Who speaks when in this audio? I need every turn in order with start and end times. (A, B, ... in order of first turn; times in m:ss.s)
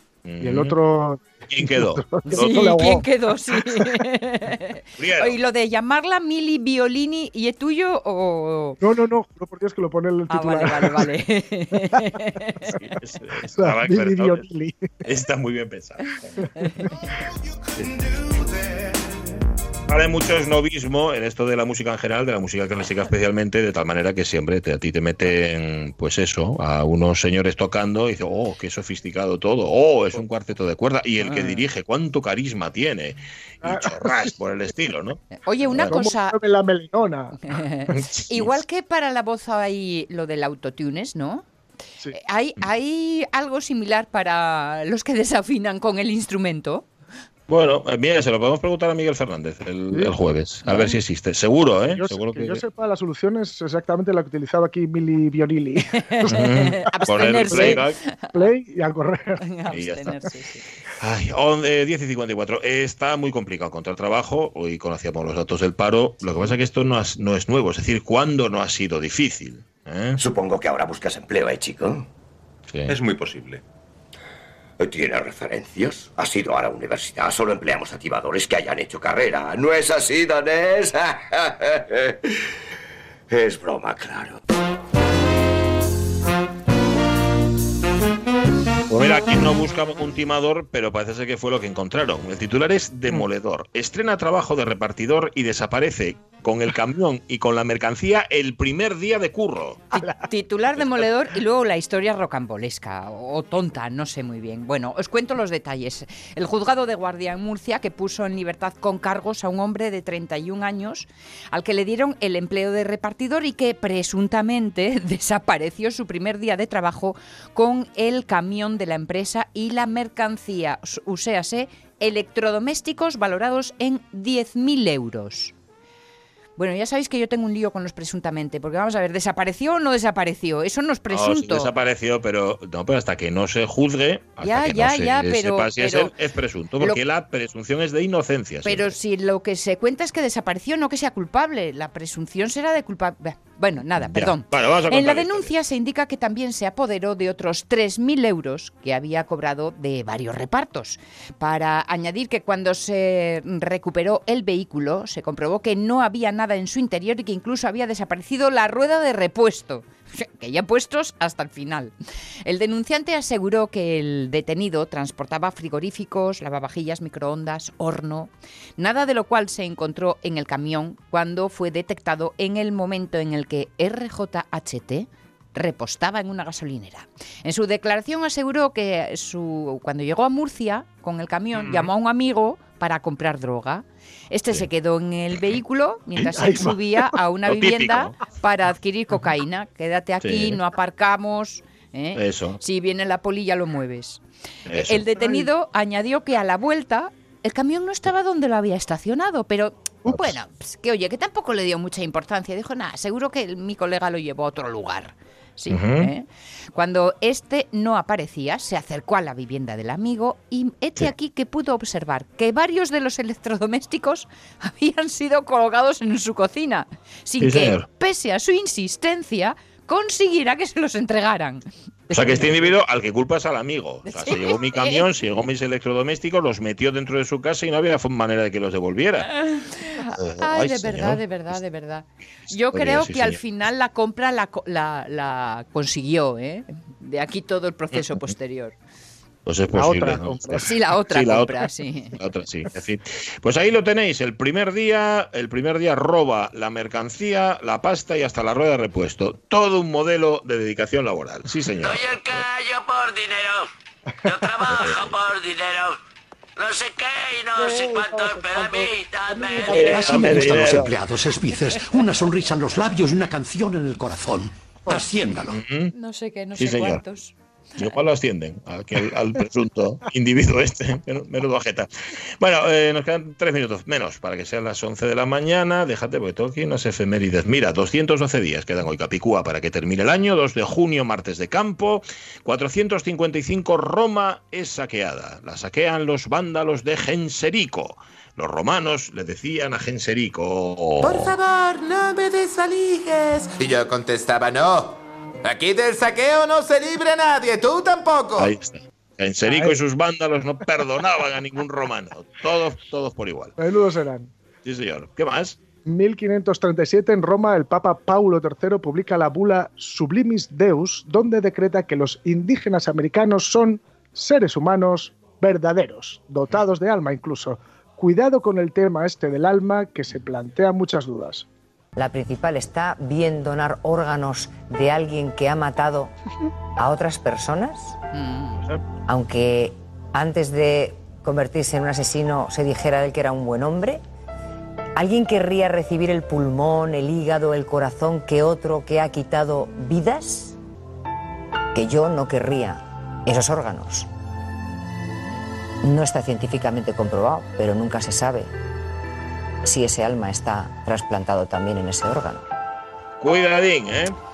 0:00.2-0:00.8 A
0:00.4-0:04.0 B
0:01.5-0:02.7 A
0:02.3-0:08.8 C
0:05.0-0:05.4 A
0:08.8-0:11.1 B
0:10.3-0:12.8 C
0:12.7-0:14.4 A
0:13.6-0:14.9 B
0:15.0-0:16.3 A
0:16.6-0:16.9 C
0:19.9-0:35.9 A
0:31.2-0:31.6 C
0:33.6-0:34.3 B
0:35.4-0:36.4 C
0:35.8-0:37.4 B
0:37.4-0:41.4 C
0:37.9-0:38.5 A
0:42.1-0:46.9 C
0:47.5-0:52.6 A
0:51.8-0:57.8 B
0:56.0-0:58.5 C
0:56.3-0:58.0 A
0:58.3-0:59.4 B
0:59.4-1:00.6 C
0:59.7-1:00.2 A
1:01.0-1:10.2 A
1:10.2-1:12.1 D
1:12.7-1:13.0 A
1:12.9-1:13.6 D
1:14.8-1:22.2 D
1:23.3-1:24.4 D
1:28.9-1:39.8 A
1:39.9-2:05.5 C
1:39.9-1:40.2 B
1:40.7-1:41.1 A
2:06.6-2:11.7 C
2:11.1-2:19.0 A
2:14.4-2:16.1 C
2:18.6-2:41.9 C
2:24.0-2:25.5 A
2:42.4-3:14.2 C
3:06.2-3:07.1 B
3:07.5-3:08.1 A
3:10.2-3:10.6 A
3:12.2-3:12.6 A
3:14.7-3:15.1 A
3:14.7-3:42.8 C
3:15.2-3:15.5 B
3:20.1-3:20.4 A
3:25.7-3:26.1 A
3:37.4-3:37.8 A
3:42.1-3:49.3 A
3:44.1-3:45.1 C
3:49.2-3:58.8 C
3:50.2-3:51.6 A
3:52.7-3:53.4 A
3:57.9-3:58.3 A
3:59.5-4:01.5 A
3:59.7-4:00.7 B
4:00.6-4:02.2 C
4:02.2-4:12.0 A
4:11.8-4:13.7 E
4:14.2-4:16.0 E
4:16.6-4:19.9 E
4:19.7-4:20.9 A
4:19.8-4:25.6 F
4:25.5-4:25.9 A
4:25.9-4:27.9 C
4:26.6-4:27.0 A
4:27.8-4:31.9 A
4:32.4-4:51.3 A
4:51.0-4:58.5 G
4:58.4-5:03.6 A
4:59.4-4:59.8 B
5:03.6-5:04.3 B
5:04.6-5:05.6 A
5:05.9-5:21.5 B
5:22.0-5:26.1 H
5:26.8-5:28.0 H
5:28.1-5:28.6 C
5:29.1-5:34.0 H
5:35.0-5:40.6 H
5:41.7-5:44.1 H
5:45.8-5:48.5 H
5:49.6-5:52.5 H
5:53.2-5:54.2 A